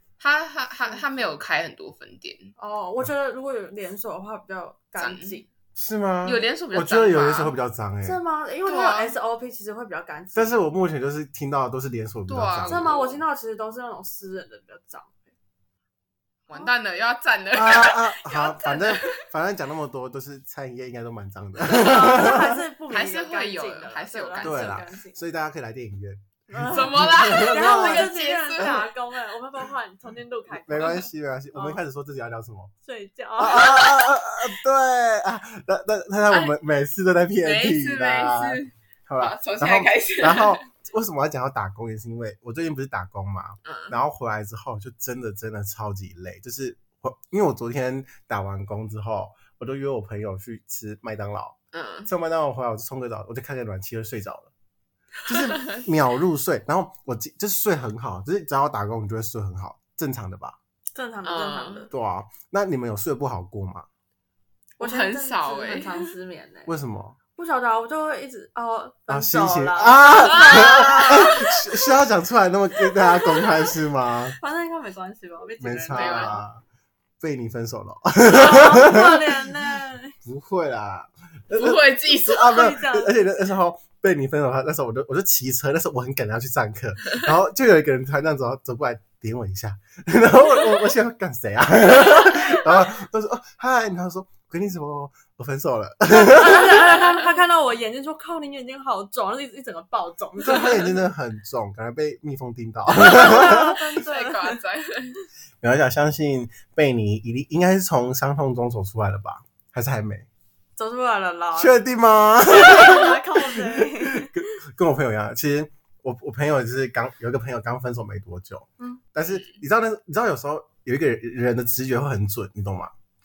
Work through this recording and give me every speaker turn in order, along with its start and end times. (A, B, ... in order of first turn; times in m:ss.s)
0:00.2-0:02.5 A
0:02.6-0:05.5 B
0:05.0-0:05.4 A
0:05.8-0:08.2 C
0:06.2-0:07.5 A
0:08.0-0:10.6 B
0:08.6-0:09.1 A
0:10.3-0:13.0 C
0:12.3-0:13.2 A
0:12.6-0:15.2 B
0:16.5-0:19.2 A
0:17.5-0:22.6 C
0:21.7-0:25.2 B
0:21.7-0:22.1 A
0:22.9-0:24.8 A
0:24.4-0:28.8 C
0:26.5-0:31.8 B
0:26.7-0:28.9 A
0:30.5-0:32.7 C
0:32.8-0:34.1 B
0:33.4-0:54.5 C
0:37.4-0:40.6 A
0:43.6-0:44.0 A
0:51.7-0:52.1 A
0:55.3-1:00.6 C
0:55.3-0:55.8 A
1:00.9-1:01.9 B
1:01.2-1:01.9 A
1:01.9-1:03.8 C
1:04.8-1:06.1 A
1:04.8-1:06.7 B
1:06.7-1:07.2 C
1:07.4-1:11.7 B
1:09.1-1:14.4 C
1:10.4-1:10.7 A
1:13.0-1:13.6 B
1:14.4-1:16.4 B
1:15.6-1:16.6 C
1:15.9-1:16.4 A
1:17.2-1:19.3 C
1:18.2-1:20.2 B
1:20.2-1:37.1 C
1:21.5-1:22.6 A
1:22.4-1:23.3 B
1:36.1-1:41.0 B
1:40.4-1:43.8 C
1:42.9-1:44.6 B
1:43.4-1:45.2 A
1:45.6-1:50.3 C
1:50.8-1:51.8 B
1:51.6-2:02.9 C
1:52.4-1:54.3 B